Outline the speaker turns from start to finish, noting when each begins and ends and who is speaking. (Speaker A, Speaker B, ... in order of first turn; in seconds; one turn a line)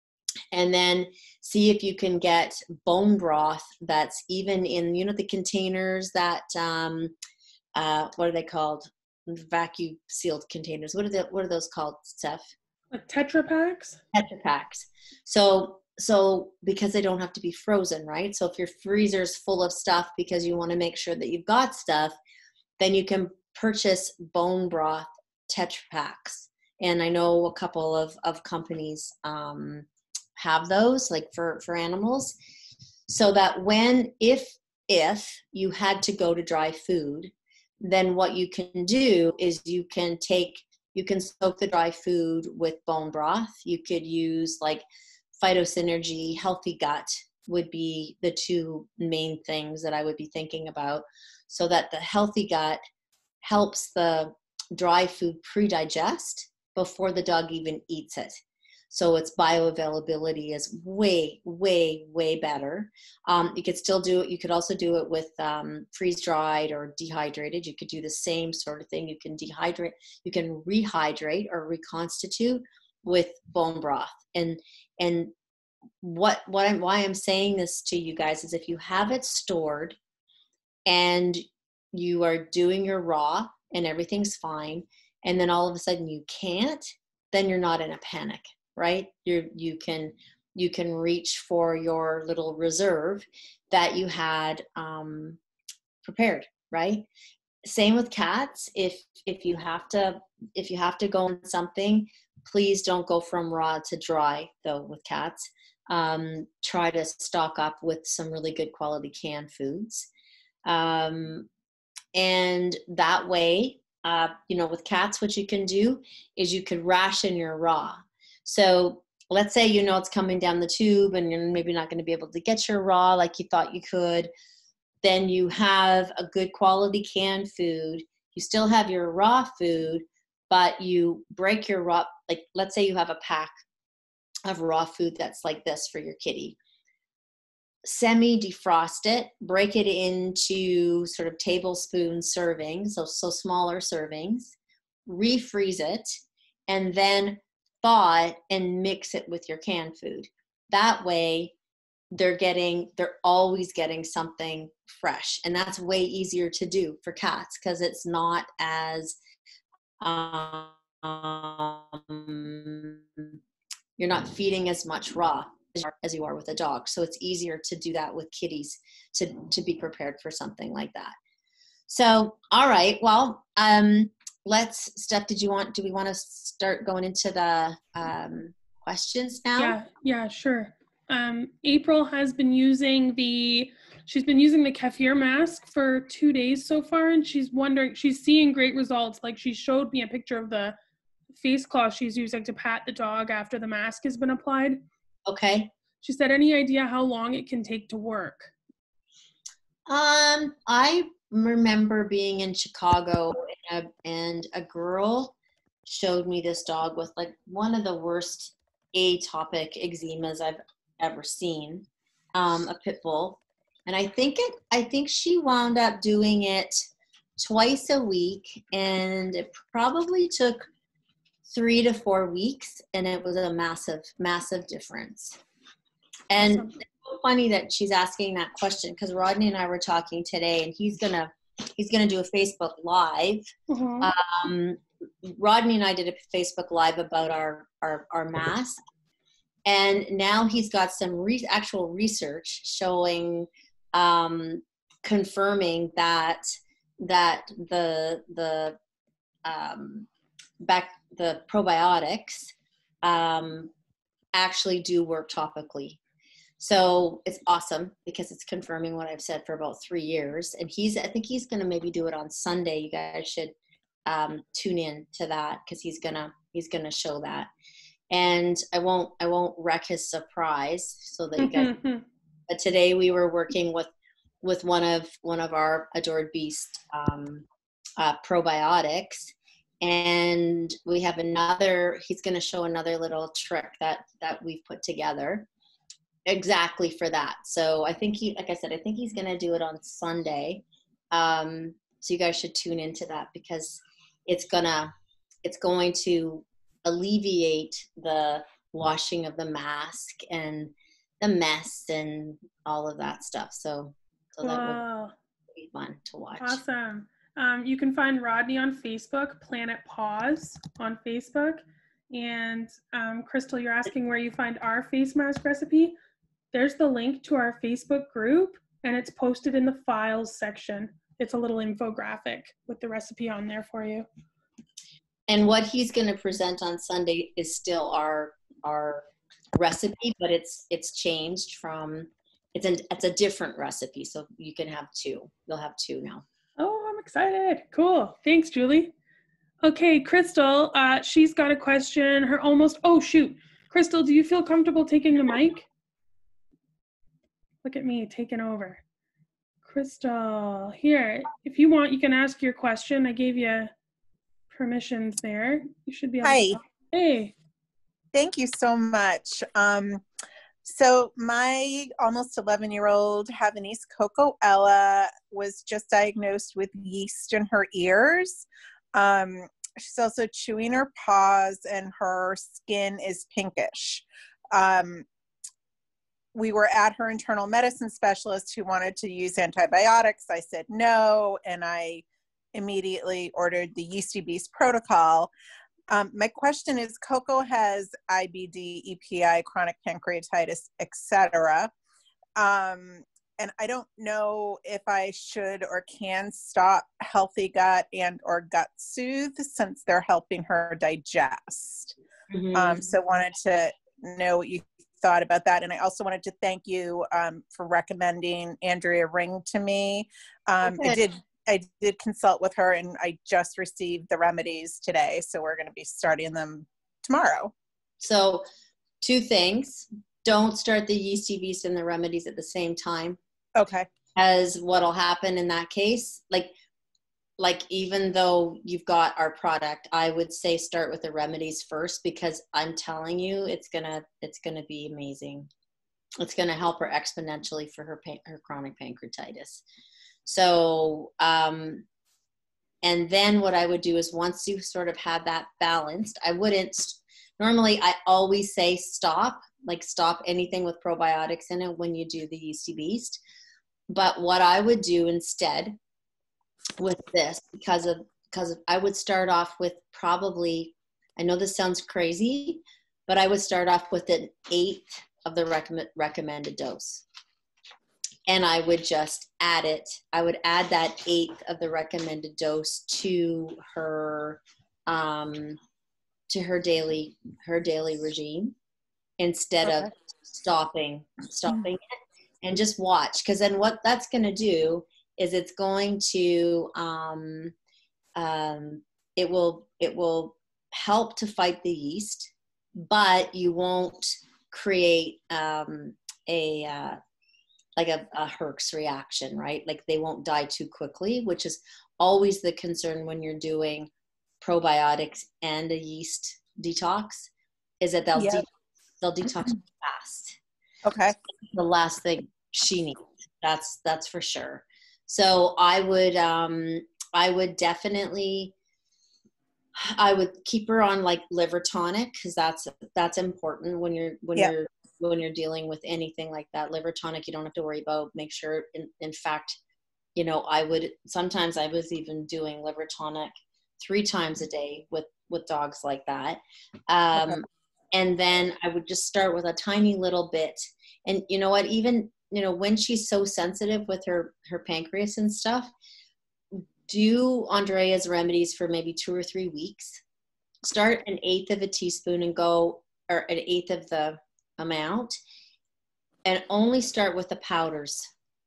Speaker A: 0.5-7.1
Speaker A: 7.7-12.5
Speaker B: 12.9-14.0
Speaker A: 14.1-22.2
Speaker A: 22.8-32.3
Speaker A: 33.1-44.8
Speaker A: 45.4-52.8
Speaker A: 53.4-58.4
Speaker A: 58.9-75.3
Speaker A: 76.0-80.0
Speaker A: 80.8-95.4
Speaker A: 96.0-97.1
Speaker A: 97.6-110.1
Speaker A: 110.6-111.5
Speaker A: 112.1-124.3
Speaker A: 125.0-133.6
Speaker A: 134.4-136.6
Speaker A: 137.8-144.5
Speaker A: 145.1-146.2
Speaker A: 146.7-151.5
Speaker A: 152.1-159.2
Speaker A: 160.0-163.4
Speaker A: 164.0-171.1
Speaker A: 171.9-179.8
Speaker B: 179.6-190.8
Speaker B: 191.3-194.8
Speaker A: 195.2-195.7
Speaker B: 196.0-198.5
Speaker A: 199.9-216.9
Speaker A: 217.4-220.7
Speaker A: 221.4-225.4
Speaker A: 226.3-233.5
Speaker B: 226.4-226.7
Speaker B: 233.7-234.1
Speaker A: 234.0-238.8
Speaker A: 239.6-246.5
Speaker A: 247.0-248.8
Speaker A: 249.4-250.1
Speaker A: 250.6-253.7
Speaker A: 254.3-256.0
Speaker A: 256.6-267.5
Speaker A: 268.1-271.7
Speaker B: 271.4-272.0
Speaker A: 272.5-273.9
Speaker A: 274.4-277.4
Speaker A: 278.0-285.5
Speaker A: 286.2-294.9
Speaker A: 295.4-304.8
Speaker B: 304.4-305.1
Speaker A: 305.5-306.6
Speaker B: 306.4-315.9
Speaker B: 316.5-324.1
Speaker A: 325.3-336.2
Speaker B: 336.6-338.9
Speaker B: 339.6-345.7
Speaker B: 347.6-348.8
Speaker B: 349.6-353.7
Speaker B: 354.5-357.3
Speaker C: 356.2-356.6
Speaker C: 358.1-360.0
Speaker C: 360.6-375.1
Speaker C: 376.3-385.3
Speaker C: 385.9-391.7
Speaker C: 392.4-401.9
Speaker A: 402.3-402.9
Speaker C: 402.5-417.5
Speaker A: 410.6-411.0
Speaker A: 418.0-418.4
Speaker A: 419.0-423.2
Speaker C: 423.5-423.9
Speaker A: 424.1-426.5
Speaker A: 427.4-435.5
Speaker A: 436.2-439.6
Speaker A: 440.2-441.8
Speaker A: 442.8-453.2
Speaker A: 453.9-455.8
Speaker A: 456.8-467.1
Speaker A: 468.2-475.6
Speaker A: 476.3-478.5
Speaker A: 479.2-481.9
Speaker A: 482.4-487.5
Speaker A: 488.1-497.0
Speaker A: 497.8-503.9
Speaker A: 504.4-507.3
Speaker A: 507.8-508.5
Speaker C: 508.1-508.4
Speaker A: 509.0-510.4
Speaker C: 510.8-511.1
Speaker A: 511.5-518.5
Speaker A: 519.8-529.6
Speaker A: 530.1-545.7
Speaker A: 546.5-550.0
Speaker A: 550.6-555.2
Speaker A: 556.2-558.1